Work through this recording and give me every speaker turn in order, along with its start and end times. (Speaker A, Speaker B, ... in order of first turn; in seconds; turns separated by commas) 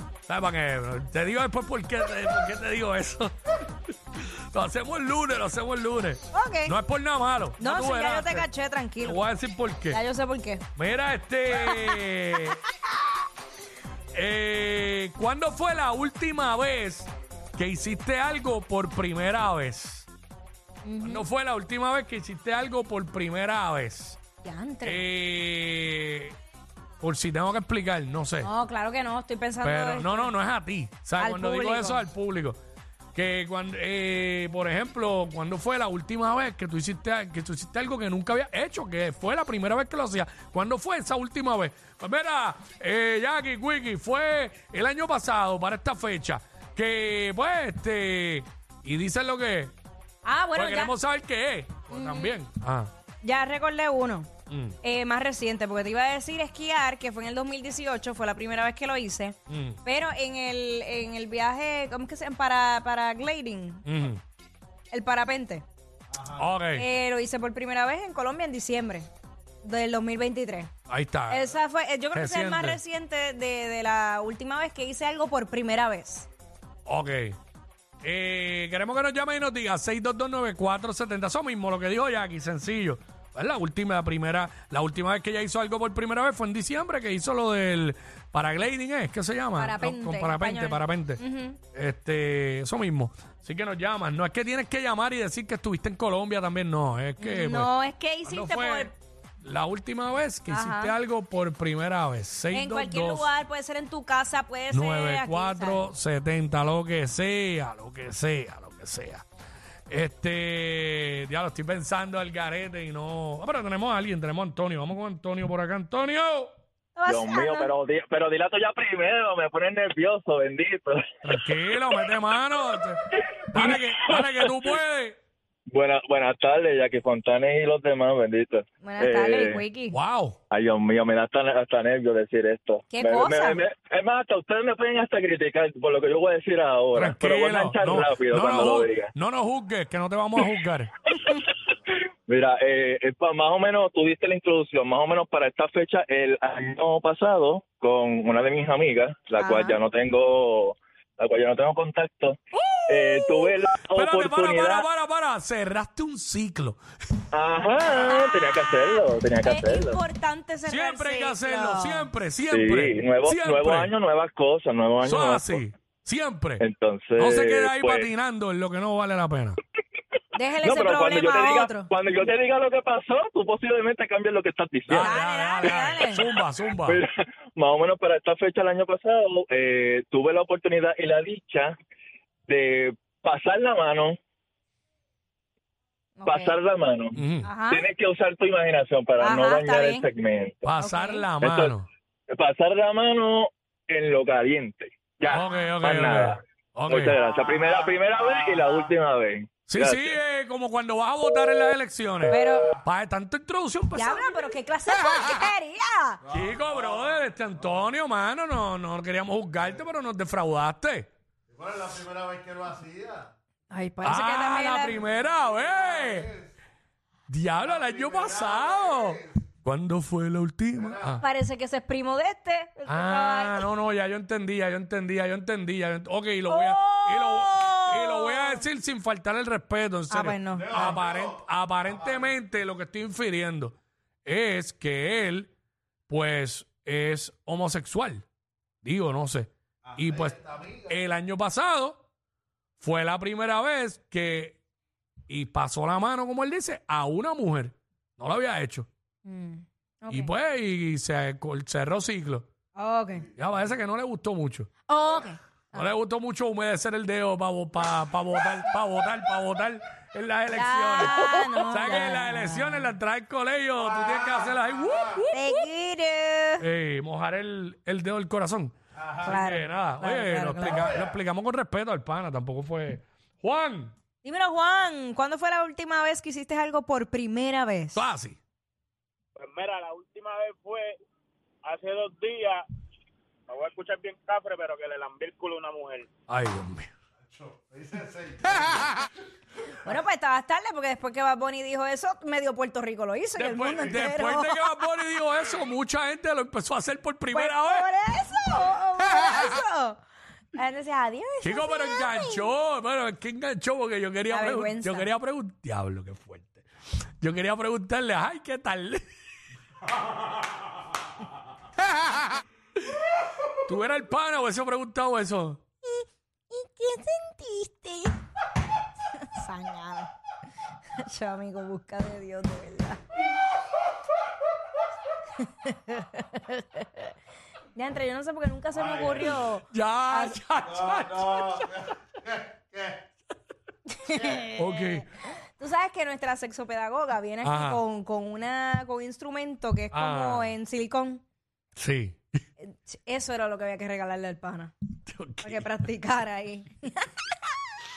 Speaker A: 0.3-3.3, Speaker A: 4.1-8.5, Speaker B: 6.3-6.8, Speaker B: 7.6-9.2, Speaker A: 9.0-10.0, Speaker B: 9.9-10.6, Speaker A: 10.7-12.6, Speaker A: 14.1-20.1, Speaker B: 20.8-21.2, Speaker A: 21.0-24.2, Speaker B: 24.4-25.0, Speaker A: 24.8-26.3, Speaker A: 27.0-28.5, Speaker B: 28.4-30.3, Speaker A: 29.6-32.6, Speaker B: 31.2-32.0, Speaker A: 33.1-49.7, Speaker B: 50.2-50.9, Speaker A: 50.5-52.9, Speaker B: 51.9-52.4, Speaker B: 53.2-54.3, Speaker A: 54.5-54.8, Speaker B: 54.8-63.9, Speaker A: 59.5-59.8, Speaker A: 63.9-64.2, Speaker B: 64.9-65.6, Speaker C: 66.1-66.5, Speaker A: 66.4-66.8, Speaker B: 66.7-69.1, Speaker B: 69.6-70.7, Speaker A: 70.9-71.6, Speaker B: 71.3-76.3, Speaker A: 72.1-72.8, Speaker A: 76.8-77.4, Speaker A: 78.0-91.2, Speaker B: 89.6-91.6, Speaker A: 91.7-97.7, Speaker B: 97.2-98.9, Speaker A: 98.2-103.3, Speaker B: 100.5-100.9, Speaker B: 102.5-105.8, Speaker A: 104.7-109.2, Speaker A: 109.9-116.5, Speaker B: 117.0-117.7, Speaker D: 117.1-121.0, Speaker A: 121.2-123.0, Speaker D: 123.2-123.8, Speaker A: 123.5-125.2, Speaker D: 125.7-129.6, Speaker B: 128.8-130.0, Speaker A: 129.9-130.4, Speaker D: 130.5-139.1, Speaker B: 132.9-133.6, Speaker A: 136.9-140.9, Speaker D: 142.3-154.9, Speaker B: 149.4-149.8, Speaker B: 152.6-153.5, Speaker A: 153.9-156.8, Speaker D: 157.3-160.0, Speaker B: 157.9-162.1, Speaker A: 160.7-163.9, Speaker D: 162.5-165.6, Speaker A: 165.0-166.6, Speaker D: 166.6-168.1, Speaker A: 167.2-169.6, Speaker B: 170.3-171.9, Speaker D: 170.6-175.1, Speaker A: 174.9-177.0, Speaker B: 175.0-176.2, Speaker D: 176.8-181.7, Speaker D: 182.5-184.2, Speaker B: 186.2-186.6, Speaker D: 186.2-187.1, Speaker A: 187.1-187.5, Speaker B: 187.4-187.8, Speaker D: 187.7-190.6, Speaker B: 189.2-190.0, Speaker A: 190.6-191.8, Speaker B: 190.8-191.2, Speaker D: 191.4-191.7, Speaker D: 192.3-200.2, Speaker A: 195.3-197.1, Speaker A: 199.7-204.5, Speaker B: 202.3-202.7, Speaker B: 203.9-206.2, Speaker C: 206.3-207.0, Speaker A: 206.3-211.1, Speaker C: 211.5-213.3, Speaker B: 213.7-215.0, Speaker A: 214.0-216.3, Speaker C: 215.7-216.5, Speaker A: 217.3-221.2, Speaker C: 217.6-219.2, Speaker C: 220.8-221.2, Speaker B: 221.2-223.6, Speaker A: 222.8-235.5, Speaker B: 226.5-228.6, Speaker B: 230.1-230.9, Speaker C: 230.5-232.3, Speaker A: 236.1-238.2, Speaker A: 238.8-242.0, Speaker C: 239.8-241.0, Speaker A: 242.8-244.6, Speaker A: 245.3-248.9, Speaker B: 249.2-250.3, Speaker A: 250.1-252.5, Speaker B: 252.8-253.3, Speaker A: 253.3-254.7, Speaker B: 254.9-255.8, Speaker A: 255.7-265.5, Speaker B: 260.5-262.9, Speaker C: 263.9-265.2, Speaker B: 265.3-266.6, Speaker A: 266.6-273.9, Speaker C: 268.9-269.3, Speaker B: 269.2-270.9, Speaker C: 270.7-271.0, Speaker B: 274.2-278.0, Speaker A: 277.9-278.4, Speaker E: 279.4-280.9, Speaker E: 281.6-282.6, Speaker E: 283.5-286.1, Speaker A: 286.3-286.9, Speaker C: 287.3-288.9, Speaker B: 289.8-294.7, Speaker A: 293.3-297.9, Speaker B: 297.3-300.0, Speaker B: 300.5-302.5, Speaker A: 301.4-306.7, Speaker B: 304.3-305.1, Speaker A: 307.2-309.0, Speaker A: 313.6-315.6, Speaker B: 315.9-318.2, Speaker B: 319.3-320.1, Speaker B: 321.0-323.0, Speaker B: 325.4-327.1, Speaker B: 327.7-330.4, Speaker C: 328.7-329.4, Speaker A: 329.7-331.7, Speaker C: 330.6-333.0, Speaker B: 333.9-335.0, Speaker C: 334.1-334.5, Speaker A: 334.6-335.1, Speaker B: 335.6-341.2, Speaker A: 337.4-337.8, Speaker A: 339.9-340.5, Speaker A: 341.8-342.2, Speaker B: 342.6-344.7, Speaker A: 345.1-345.7, Speaker B: 345.4-347.1